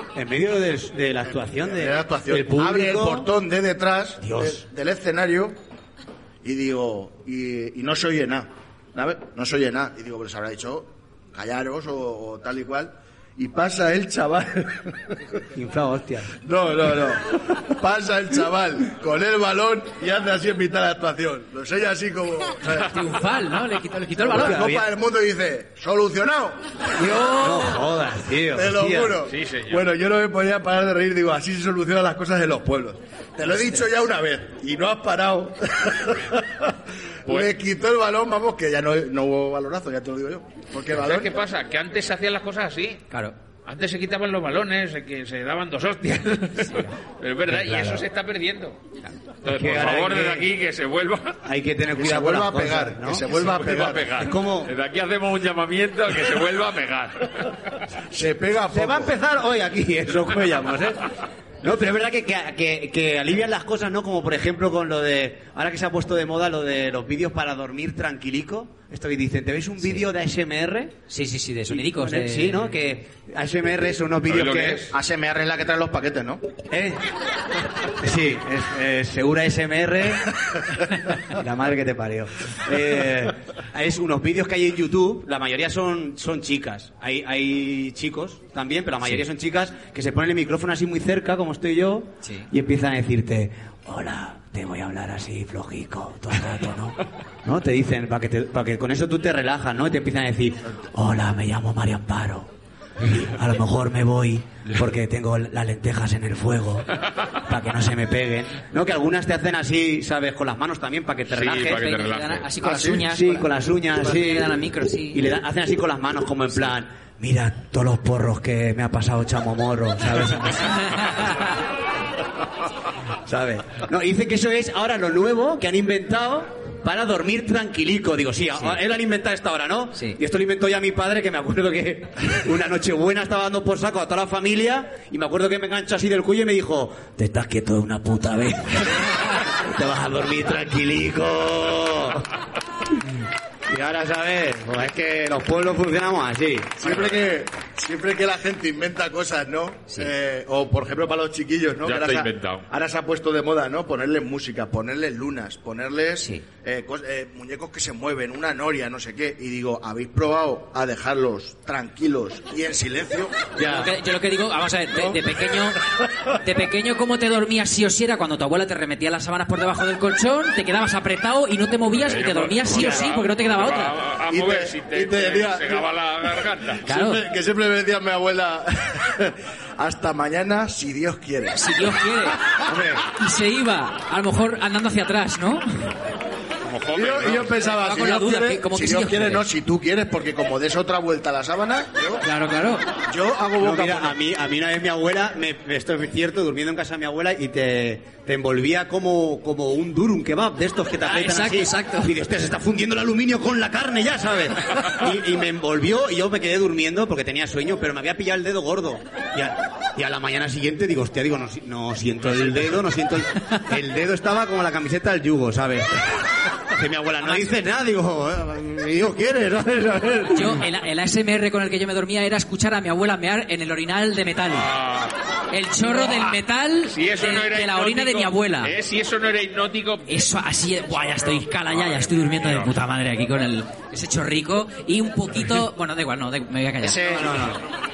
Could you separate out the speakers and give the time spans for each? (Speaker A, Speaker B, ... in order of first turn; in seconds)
Speaker A: 0.1-3.3, 4.2-4.6, 15.5-16.3, 24.3-24.8, 27.0-29.2, 47.5-48.0, 49.5-50.5, 51.4-53.3, 54.2-54.7, 58.7-71.0, 71.7-75.0, 76.7-77.0, 78.0-80.3, 81.2-111.8, 113.0-114.6, 115.1-121.4, 123.3-142.3, 143.7-146.8, 163.6-163.9, 164.9-165.2, 182.7-183.1, 193.6-220.6, 237.0-237.6
Speaker B: 1.4-5.5, 6.4-15.3, 16.4-23.0, 24.2-26.6, 28.5-41.3, 52.0-54.1, 58.1-59.2, 74.9-76.4, 112.6-113.0, 146.8-163.3, 174.3-175.9, 176.4-181.6, 186.9-192.2, 193.1-194.2, 236.8-237.4
Speaker C: 22.8-24.8, 27.0-27.8, 46.6-46.9, 71.1-72.6, 92.2-92.5, 111.7-115.3, 120.9-121.5, 163.6-174.0, 176.9-177.2, 181.5-182.5, 183.2-186.0, 187.7-189.4, 192.2-192.9, 201.0-202.1, 217.2-217.5, 220.3-224.7, 225.5-228.7, 230.1-237.2
Speaker D: 29.2-29.8, 37.3-37.5, 40.9-43.0, 43.6-48.8, 49.4-51.4, 53.3-57.8, 74.3-74.9, 111.3-112.5, 146.8-147.2, 151.8-152.7, 171.9-176.9, 186.6-187.6, 212.2-212.7, 224.5-225.2, 225.8-230.3, 230.9-232.8